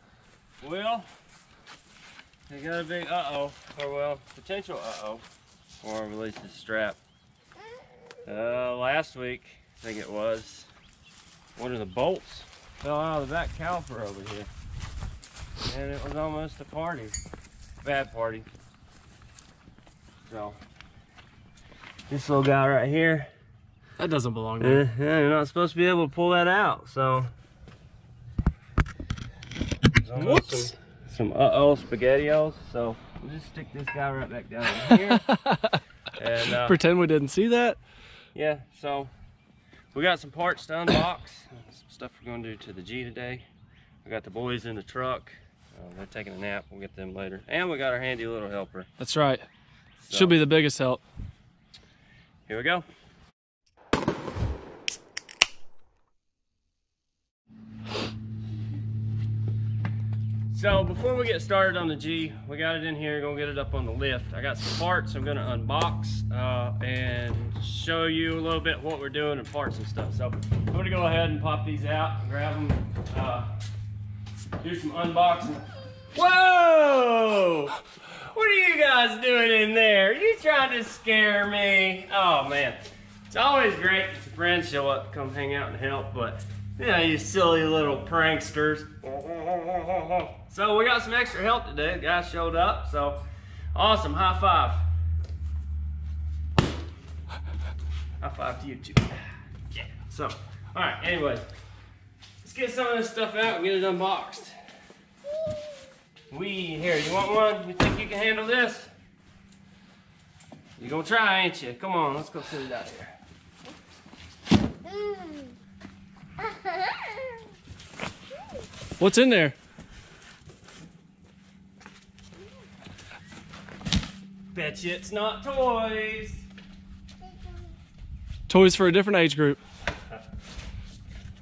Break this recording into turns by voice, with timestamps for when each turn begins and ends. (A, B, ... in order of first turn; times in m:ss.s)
0:00.6-0:01.1 A
0:02.5-0:05.2 A
0:05.8-0:07.0 A
0:08.3-0:10.7 A
0:11.6-0:14.5 A
0:15.6-0:17.2 A
0:17.8-0:18.5 A
0:20.3-0:20.6 A
0:22.1-0:23.3 A
0:24.0-0:24.9 B
0:24.6-0:27.3 A
0:30.0-0:35.3 A
0:30.1-0:30.7 B
0:35.2-0:35.8 B
0:36.2-0:36.8 A
0:36.5-0:37.8 B
0:38.4-0:39.1 A
0:39.9-0:43.4 A
0:44.0-0:48.9 A
0:49.0-0:49.5 B
0:50.0-0:50.4 A
0:50.1-0:51.0 B
0:52.5-0:52.8 A
1:00.5-1:13.5 A
1:14.6-1:15.6 A
1:16.2-1:17.8 A
1:18.3-1:22.8 A
1:23.3-1:33.2 A
1:33.7-1:34.8 A
1:38.2-1:39.2 A
1:39.7-1:41.5 A
1:42.4-1:44.5 A
1:46.3-1:48.9 A
1:50.8-1:53.2 A
1:59.0-1:59.6 B
2:04.5-2:06.4 A
2:08.5-2:09.6 B